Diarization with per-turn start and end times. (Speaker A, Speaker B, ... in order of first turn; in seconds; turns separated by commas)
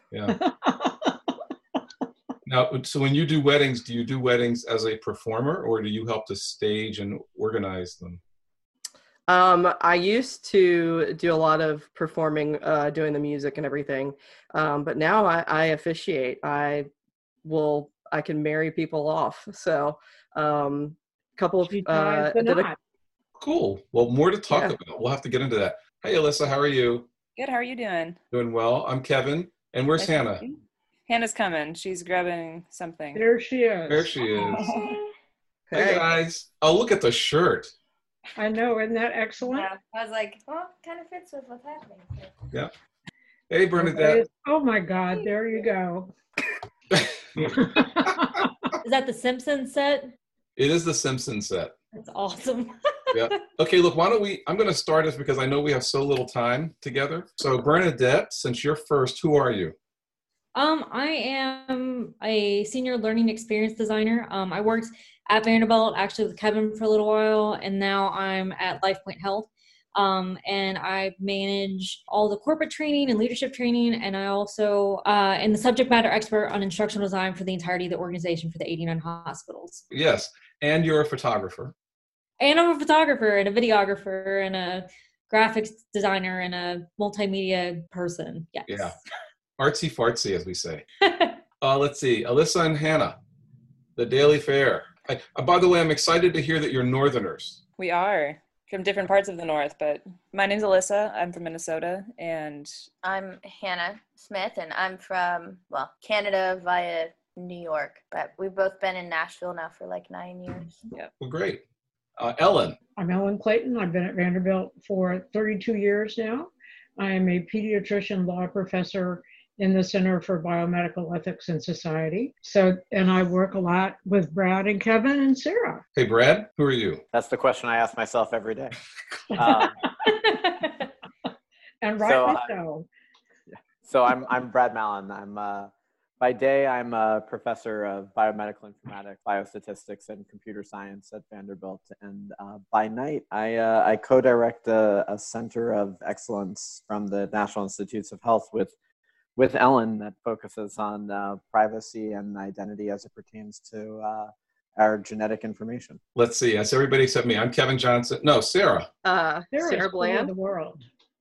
Speaker A: 0.1-0.3, Speaker B: 0.3-1.2, Speaker A: 2.5-8.2, Speaker C: 9.3-16.9, Speaker C: 17.4-22.7, Speaker B: 21.6-22.8, Speaker A: 23.4-27.1, Speaker C: 24.5-24.8, Speaker D: 27.4-28.2, Speaker A: 28.3-30.4, Speaker D: 30.0-33.2, Speaker B: 33.1-34.9, Speaker A: 33.9-34.6, Speaker E: 34.5-35.0, Speaker C: 35.7-36.1, Speaker A: 35.7-37.7, Speaker B: 38.4-39.7, Speaker E: 39.4-42.4, Speaker A: 43.5-44.2, Speaker B: 43.8-46.1, Speaker E: 45.1-45.6, Speaker A: 47.0-48.2, Speaker B: 47.6-48.5, Speaker F: 48.8-50.1, Speaker A: 50.6-51.7, Speaker F: 51.9-53.4, Speaker A: 53.1-59.7, Speaker F: 60.5-79.8, Speaker A: 79.9-81.7, Speaker F: 82.4-89.0, Speaker A: 88.7-88.9, Speaker A: 89.6-90.8, Speaker F: 91.0-91.4, Speaker A: 91.6-93.2, Speaker A: 94.0-97.6, Speaker D: 97.8-102.7, Speaker E: 103.0-110.8, Speaker A: 111.2-111.6, Speaker A: 112.2-112.8, Speaker B: 113.0-125.8, Speaker A: 126.0-127.0, Speaker G: 127.1-128.8, Speaker G: 129.3-129.7, Speaker B: 129.3-129.7, Speaker B: 131.8-132.9, Speaker G: 132.0-132.5, Speaker G: 133.5-148.7, Speaker G: 149.3-156.0, Speaker A: 156.2-158.9, Speaker C: 159.0-160.3, Speaker B: 159.5-160.8